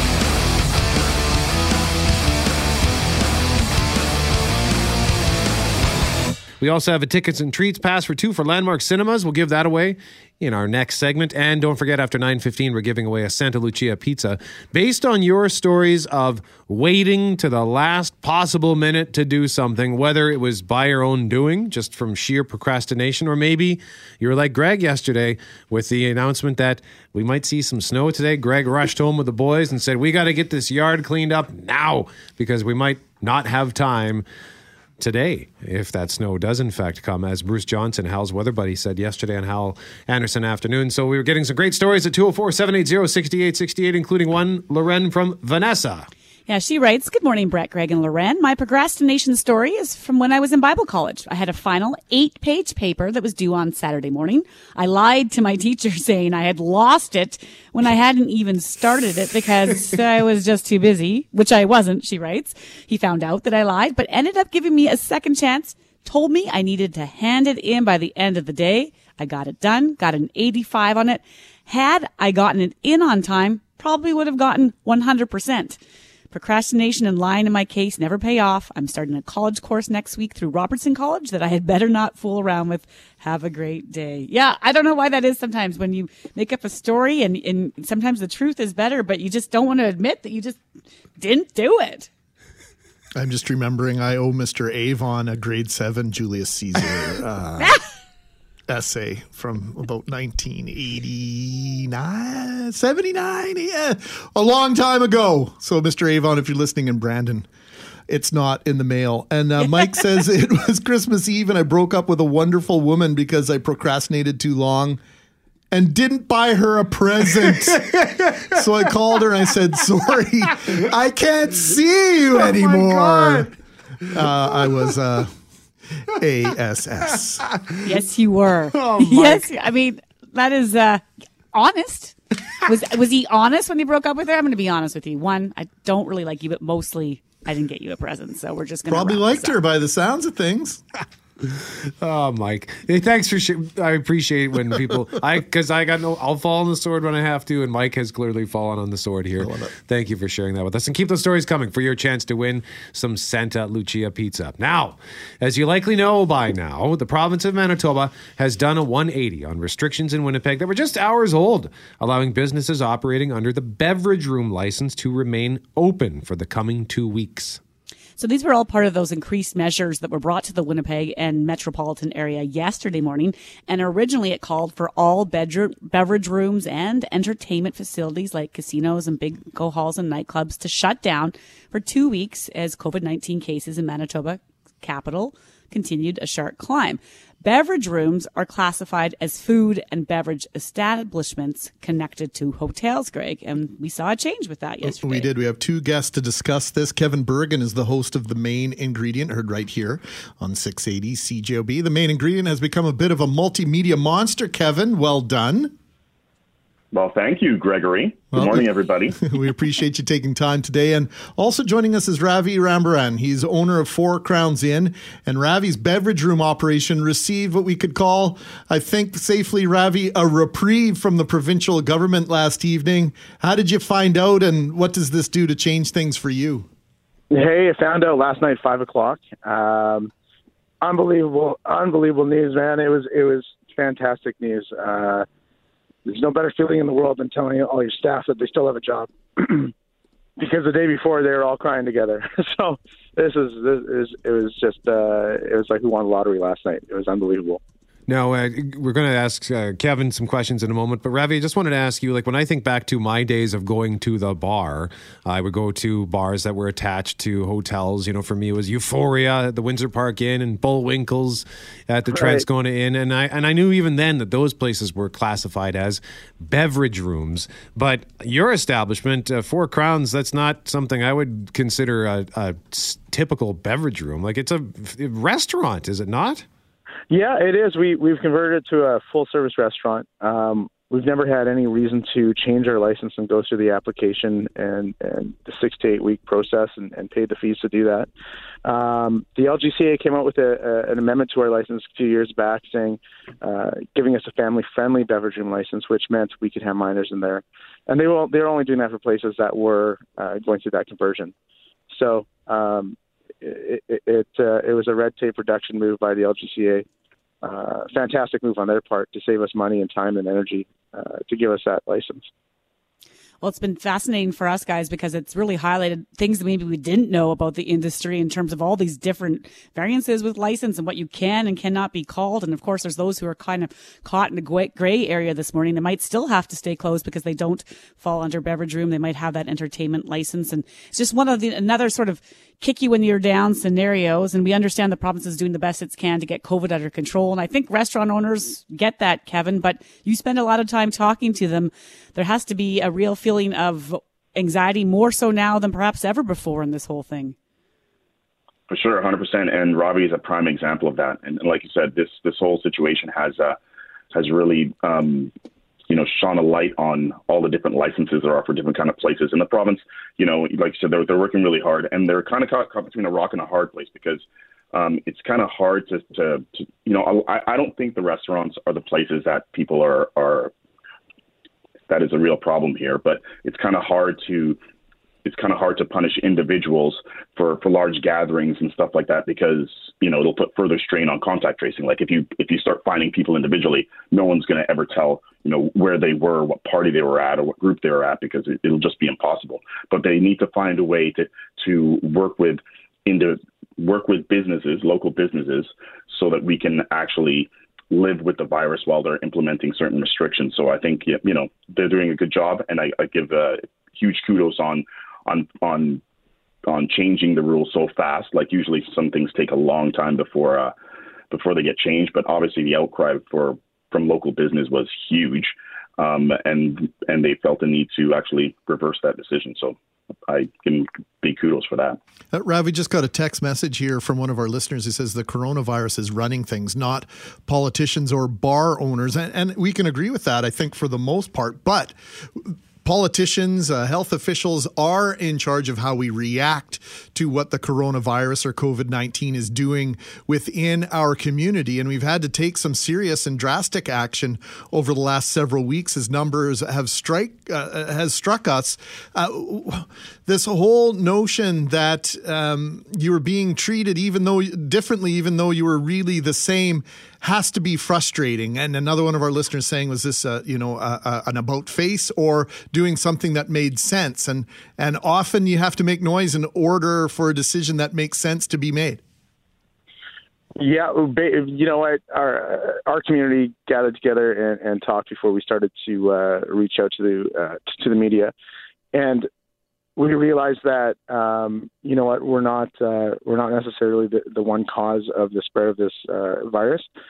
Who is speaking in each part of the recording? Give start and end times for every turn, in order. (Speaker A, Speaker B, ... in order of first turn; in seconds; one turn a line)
Speaker A: 6.6-34.2
Speaker A: 35.0-46.1
Speaker B: 46.5-75.8
Speaker B: 76.3-90.6
Speaker B: 91.2-92.1
Speaker C: 93.2-97.8
Speaker C: 98.7-107.5
Speaker C: 108.1-115.0
Speaker C: 115.7-117.9
Speaker A: 117.7-118.5
Speaker C: 118.5-123.5
Speaker A: 122.5-123.5
Speaker C: 124.1-125.3
Speaker C: 126.0-127.5
Speaker B: 127.8-139.6
Speaker A: 128.7-129.4
Speaker C: 138.9-140.8
Speaker A: 141.5-167.6
Speaker C: 149.4-149.7
Speaker B: 168.2-195.3
Speaker C: 194.8-205.7
Speaker D: 206.9-209.2
Speaker C: 208.3-208.6
Speaker C: 209.2-226.7
Speaker E: 227.3-230.1
Speaker E: 230.8-235.2
Speaker E: 236.1-239.7
Speaker E: 240.4-247.6
Speaker A: 248.1-276.4
Speaker E: 262.1-262.4
Speaker E: 277.1-288.1
Speaker E: 288.6-301.3
Speaker E: 301.9-306.8
Speaker E: 307.4-312.3
Speaker B: 313.4-347.4
Speaker D: 348.7-353.6
Speaker D: 354.1-355.3
Speaker D: 355.9-370.5
Speaker D: 371.9-374.6
Speaker D: 375.2-406.0
Speaker D: 406.7-410.7
Speaker D: 411.3-419.8
Speaker D: 420.3-422.0
Speaker C: 422.3-469.0
Speaker E: 470.6-478.3
Speaker E: 478.9-479.3
Speaker E: 480.0-486.9